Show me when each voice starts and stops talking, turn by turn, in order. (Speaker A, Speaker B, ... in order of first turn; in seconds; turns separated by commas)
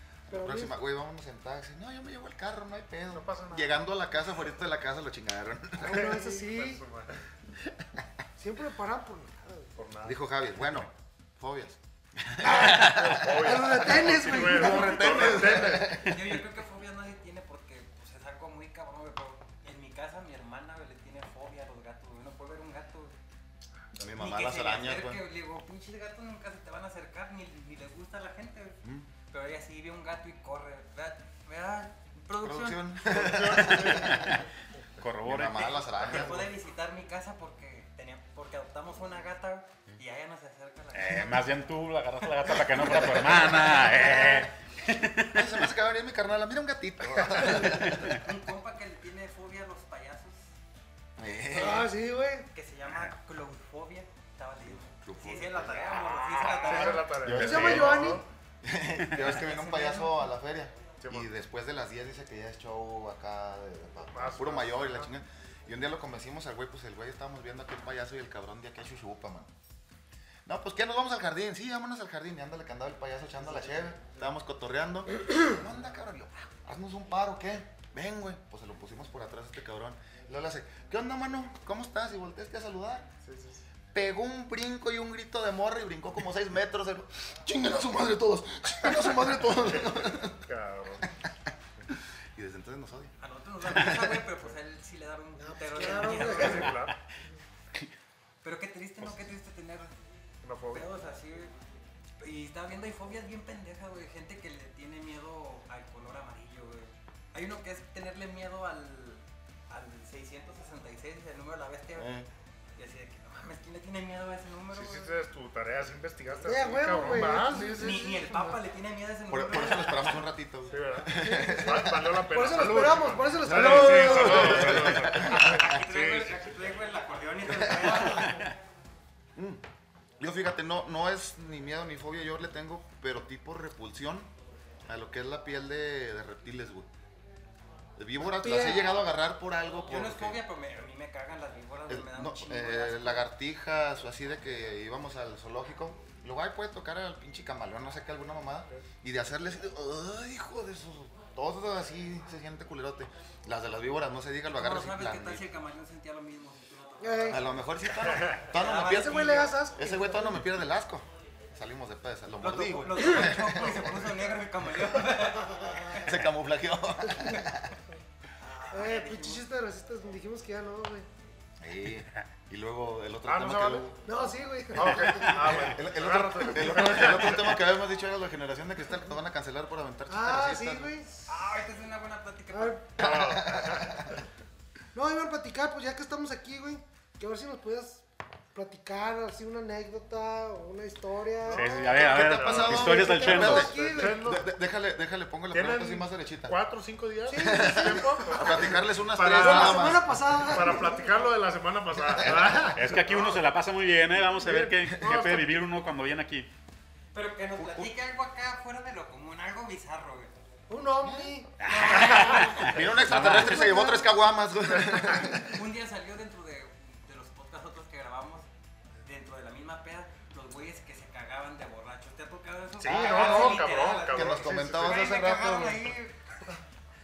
Speaker A: 0.3-6.1, Speaker B: 0.3-0.8, Speaker C: 3.1-3.7, Speaker B: 5.8-6.8, Speaker C: 5.9-7.2, Speaker B: 8.4-9.7, Speaker C: 9.8-10.9, Speaker A: 10.0-16.4, Speaker B: 12.4-15.3, Speaker C: 12.6-16.0, Speaker D: 15.8-23.2, Speaker A: 24.0-25.2, Speaker D: 24.1-33.2, Speaker A: 28.8-29.1, Speaker A: 32.4-34.4, Speaker C: 33.0-34.5, Speaker E: 34.0-34.4, Speaker E: 35.0-35.8, Speaker A: 35.2-36.5, Speaker D: 35.5-41.5, Speaker E: 40.9-45.6, Speaker A: 42.7-43.9, Speaker A: 45.3-48.2, Speaker E: 47.7-48.1, Speaker D: 48.1-50.4, Speaker A: 51.2-51.9, Speaker B: 51.5-52.5, Speaker D: 52.5-57.1, Speaker A: 54.9-56.1, Speaker C: 56.5-58.2, Speaker E: 57.2-58.2, Speaker A: 57.3-57.6, Speaker B: 57.4-58.2, Speaker A: 58.6-69.5, Speaker D: 59.2-60.2, Speaker C: 61.0-61.3, Speaker C: 64.1-65.1, Speaker A: 70.5-83.1, Speaker C: 83.2-83.6, Speaker A: 83.9-90.5, Speaker C: 89.8-91.1, Speaker A: 92.4-94.3, Speaker D: 93.2-96.9, Speaker B: 95.4-96.8, Speaker C: 96.0-97.0, Speaker D: 98.4-99.9, Speaker C: 100.4-100.9, Speaker D: 100.7-101.5, Speaker D: 102.2-112.2, Speaker A: 112.0-112.3, Speaker D: 112.8-115.2, Speaker C: 114.7-118.1, Speaker B: 116.5-118.6, Speaker D: 117.7-120.2, Speaker A: 119.3-122.2, Speaker C: 120.7-126.4, Speaker B: 121.2-124.9, Speaker A: 123.5-125.8, Speaker D: 125.2-128.5, Speaker A: 127.5-128.4, Speaker A: 129.3-129.6, Speaker A: 130.2-134.3, Speaker A: 134.9-136.9, Speaker A: 138.0-140.4, Speaker B: 138.2-139.0, Speaker D: 139.8-143.3, Speaker A: 141.9-155.4, Speaker D: 154.5-157.6, Speaker B: 157.0-157.4, Speaker A: 157.3-164.0, Speaker C: 158.1-158.5, Speaker D: 158.4-159.6, Speaker B: 158.8-160.5, Speaker D: 162.4-166.0, Speaker C: 163.5-164.3, Speaker B: 165.5-166.1, Speaker A: 165.9-167.8, Speaker B: 167.1-167.5, Speaker D: 168.4-169.5, Speaker B: 168.7-171.1, Speaker A: 171.6-174.0, Speaker C: 173.2-173.9, Speaker B: 174.1-175.7, Speaker C: 174.7-177.6, Speaker A: 175.4-181.0, Speaker B: 180.1-181.2, Speaker D: 181.3-183.0, Speaker B: 182.5-183.1, Speaker C: 183.0-184.1, Speaker A: 183.0-184.2, Speaker B: 184.9-188.0, Speaker B: 188.5-194.3, Speaker C: 191.4-194.5, Speaker E: 191.5-193.7, Speaker A: 191.9-196.6, Speaker C: 195.5-203.4, Speaker B: 197.3-198.7, Speaker A: 197.4-200.7, Speaker B: 199.3-201.2, Speaker A: 202.2-202.6, Speaker E: 202.7-206.5, Speaker C: 204.4-205.6, Speaker D: 207.1-210.3, Speaker A: 207.6-207.9, Speaker B: 210.7-214.2, Speaker A: 211.0-215.6, Speaker E: 211.6-213.8, Speaker D: 211.7-212.4, Speaker C: 214.7-215.4, Speaker D: 215.2-218.5, Speaker D: 219.0-226.4, Speaker C: 222.8-225.2, Speaker A: 222.8-226.0